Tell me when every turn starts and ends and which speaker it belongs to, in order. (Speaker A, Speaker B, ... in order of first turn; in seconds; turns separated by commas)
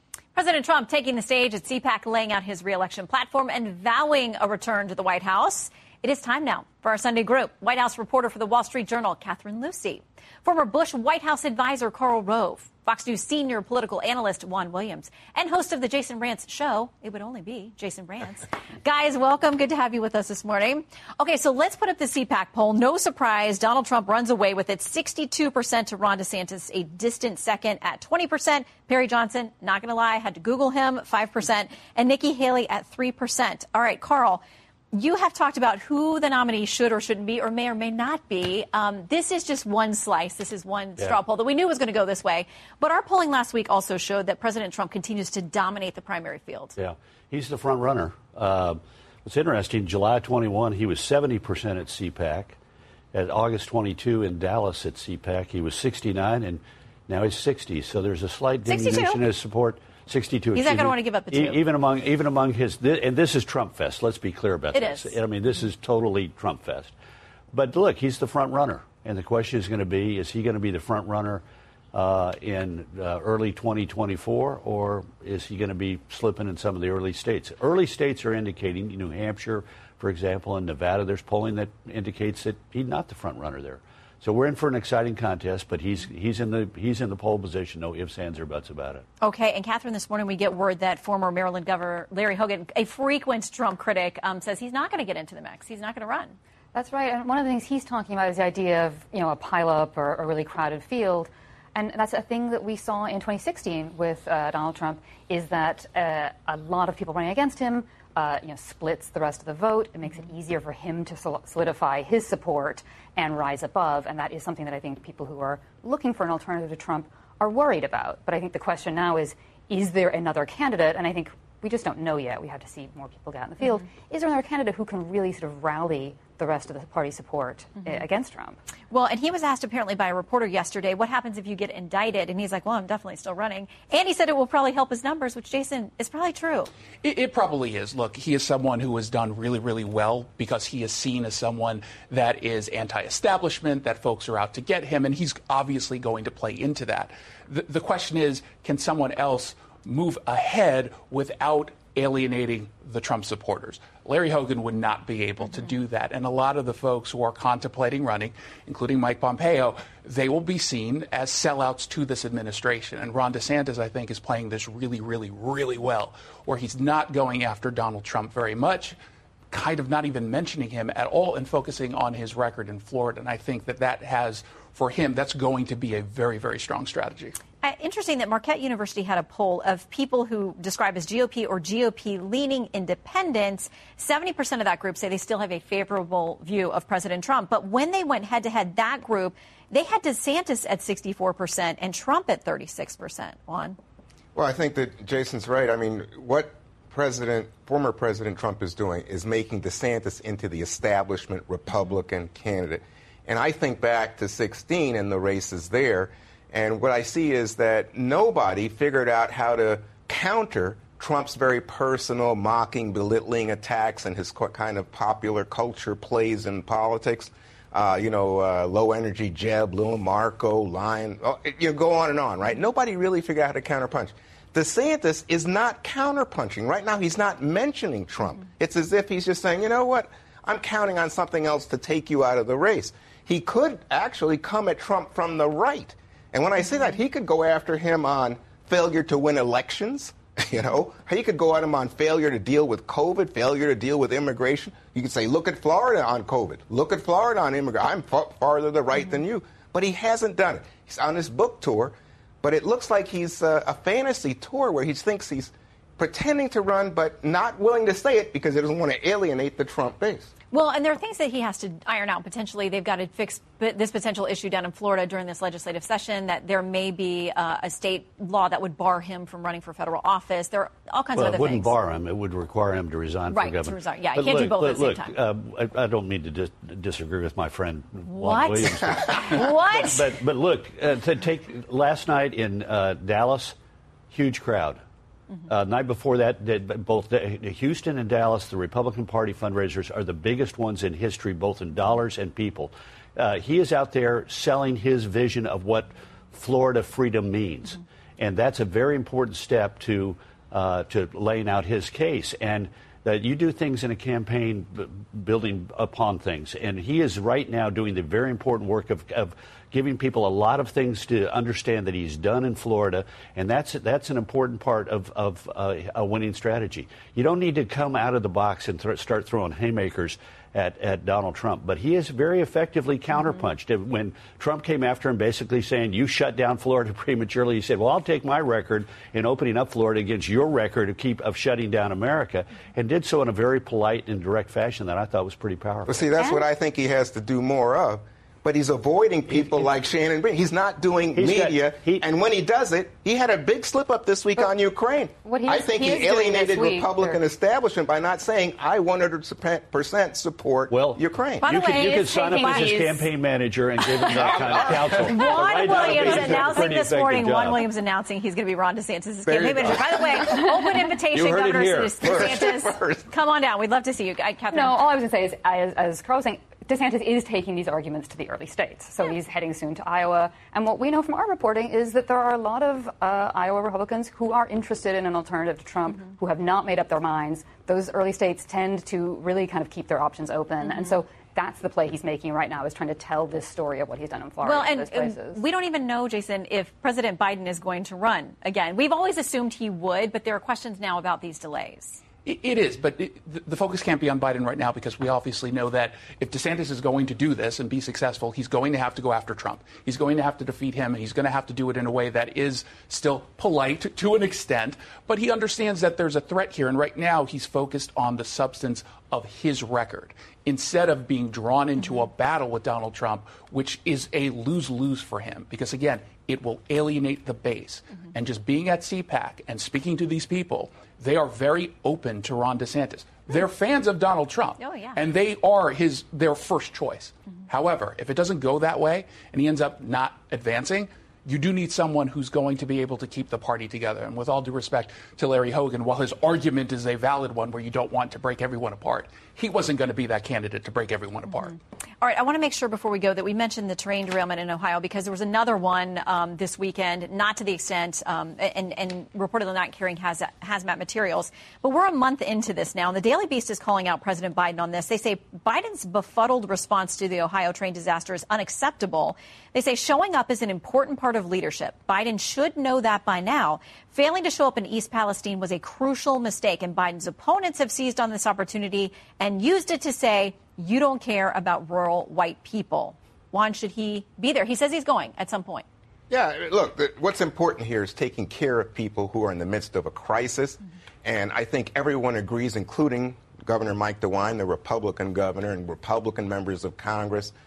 Speaker A: 0.3-46.8, Speaker B: 46.8-52.6, Speaker B: 53.1-66.9, Speaker A: 58.6-59.2, Speaker A: 60.5-61.6, Speaker A: 64.7-65.1, Speaker B: 67.5-89.0, Speaker A: 89.2-96.3, Speaker C: 96.7-128.6, Speaker A: 128.9-136.7, Speaker D: 137.0-168.9, Speaker D: 169.5-177.3, Speaker A: 177.6-193.8, Speaker E: 194.3-260.3, Speaker A: 260.5-271.7, Speaker B: 271.1-283.6, Speaker A: 273.3-275.1, Speaker A: 278.1-280.0, Speaker B: 284.1-284.8, Speaker B: 285.5-336.0, Speaker E: 335.9-351.4, Speaker C: 336.2-336.4, Speaker B: 339.2-339.7, Speaker B: 341.1-342.0, Speaker C: 345.2-347.2, Speaker B: 350.7-357.6, Speaker A: 351.4-353.1, Speaker A: 353.9-364.8, Speaker E: 354.4-354.8, Speaker E: 359.3-360.2, Speaker B: 361.1-362.0, Speaker E: 362.0-363.1, Speaker C: 364.5-385.4, Speaker A: 384.4-392.0, Speaker D: 392.2-441.6, Speaker A: 424.6-425.0, Speaker A: 441.3-475.6, Speaker E: 476.1-487.3